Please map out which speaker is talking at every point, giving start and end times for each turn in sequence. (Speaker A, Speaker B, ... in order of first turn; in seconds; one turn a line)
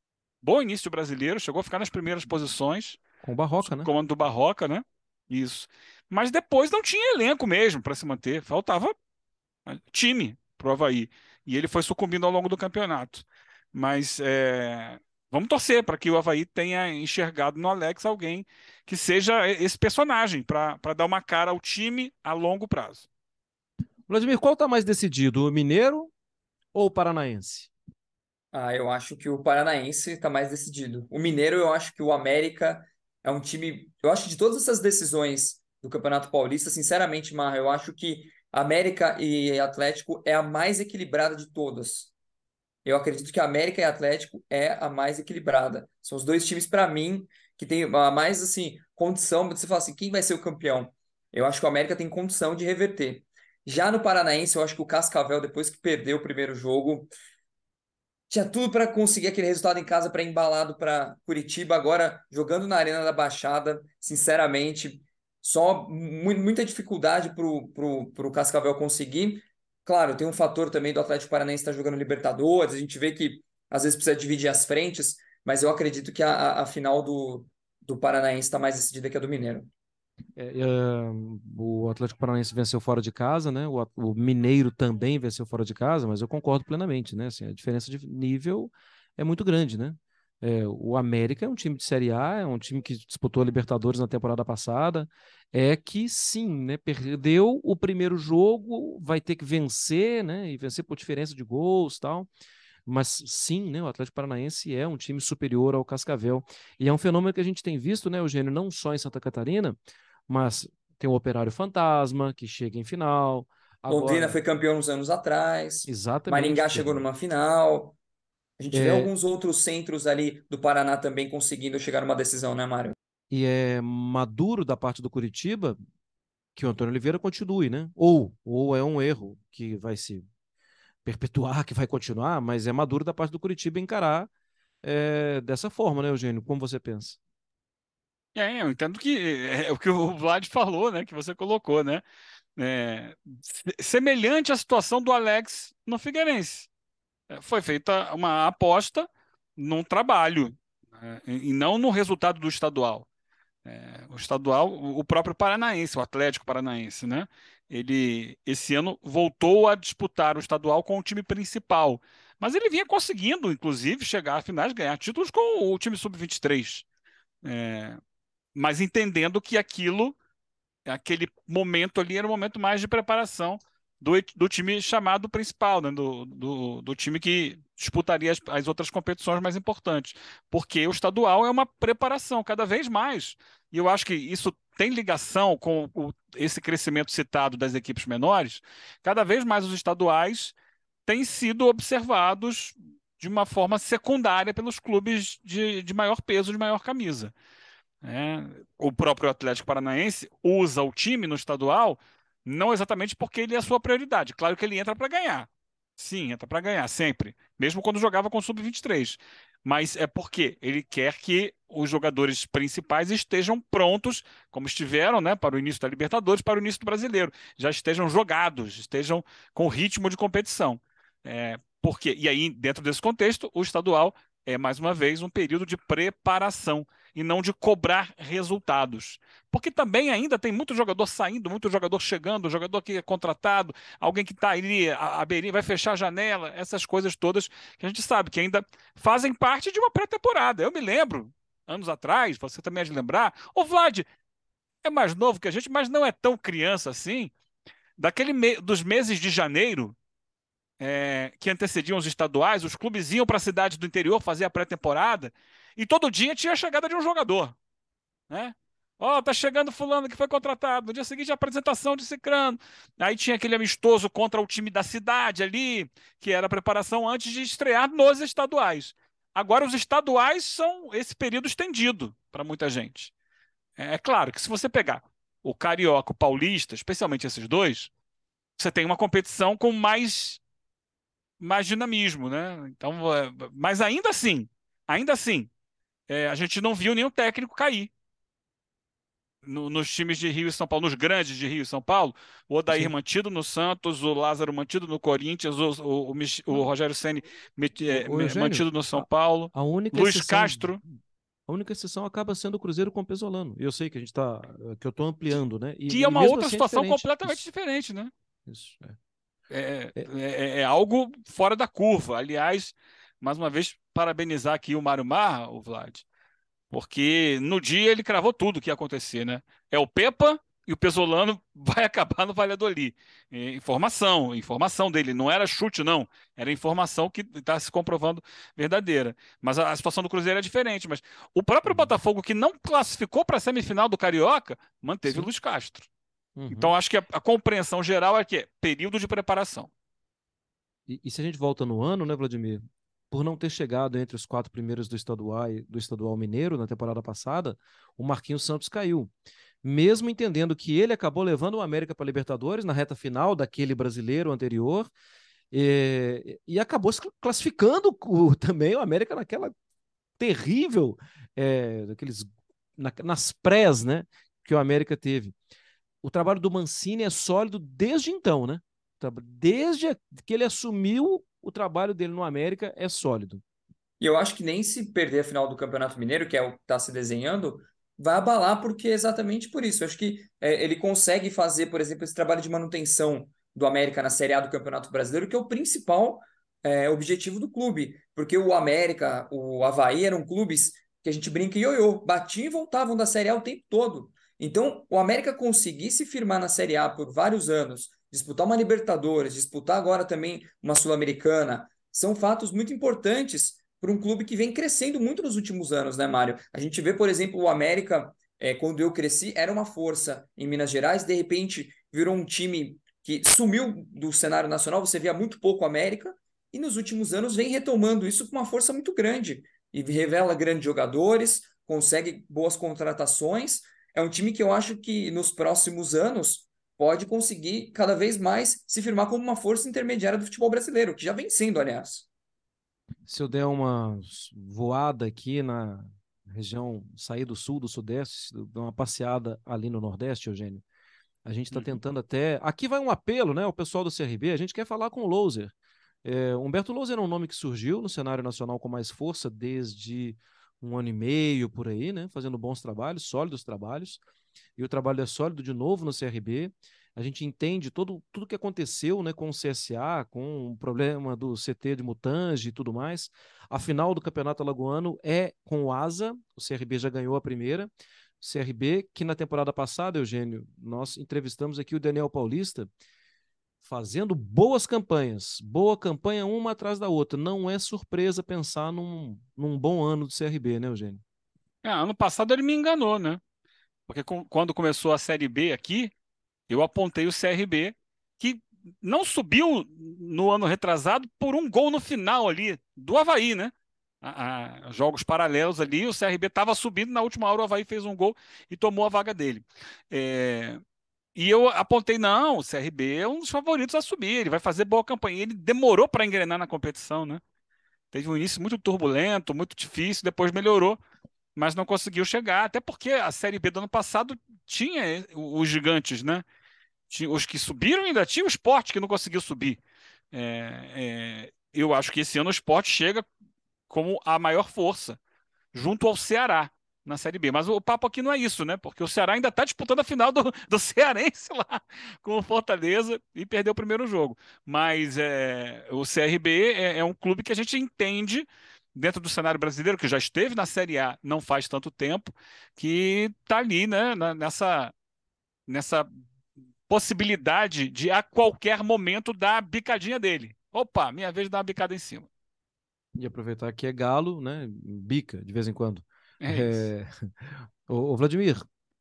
Speaker A: 0.4-3.0
Speaker B: 3.2-3.9
Speaker A: 3.6-8.9
Speaker A: 9.7-23.1
Speaker B: 24.1-26.1
Speaker B: 26.7-27.7
Speaker C: 28.5-42.1
Speaker C: 42.9-57.1
Speaker C: 58.3-79.7
Speaker B: 80.4-102.3
Speaker B: 102.9-109.8
Speaker B: 110.3-114.4
Speaker C: 113.9-118.0
Speaker B: 115.9-117.0
Speaker C: 118.6-123.0
Speaker B: 118.7-119.1
Speaker B: 123.3-125.8
Speaker B: 126.5-130.3
Speaker B: 131.1-134.3
Speaker B: 134.8-137.2
Speaker A: 138.3-142.0
Speaker A: 142.6-146.7
Speaker A: 147.3-153.1
Speaker A: 153.7-166.8
Speaker A: 167.4-168.0
Speaker A: 168.6-170.2
Speaker A: 170.9-197.3
Speaker A: 198.0-244.1
Speaker A: 244.8-247.3
Speaker A: 248.0-250.0
Speaker A: 250.8-257.6
Speaker A: 258.3-273.1
Speaker A: 273.8-277.9
Speaker A: 278.6-280.4
Speaker A: 281.4-285.5
Speaker A: 286.1-287.9
Speaker A: 289.4-300.8
Speaker B: 297.9-300.8
Speaker B: 301.5-307.4
Speaker A: 305.9-308.1
Speaker B: 308.5-309.0
Speaker A: 309.5-316.0
Speaker A: 316.7-335.9
Speaker B: 331.7-331.9
Speaker B: 336.4-336.7
Speaker A: 336.5-339.7
Speaker B: 340.9-349.1
Speaker B: 349.6-354.9
Speaker B: 355.5-359.5
Speaker B: 360.2-365.4
Speaker B: 366.0-373.4
Speaker C: 374.0-432.1
Speaker B: 433.1-440.6
Speaker B: 441.2-454.0
Speaker A: 441.5-441.8
Speaker B: 454.6-467.7
Speaker B: 468.2-472.7
Speaker B: 473.6-481.0
Speaker A: 481.6-483.2
Speaker A: 483.9-485.9
Speaker A: 486.5-500.6
Speaker A: 501.1-507.2
Speaker A: 507.9-510.8
Speaker A: 511.4-516.2
Speaker A: 516.9-519.6
Speaker A: 520.1-523.1
Speaker A: 523.7-525.0
Speaker A: 525.5-544.7
Speaker A: 545.5-545.9
Speaker A: 546.7-552.1
Speaker B: 553.0-558.4
Speaker A: 556.2-556.7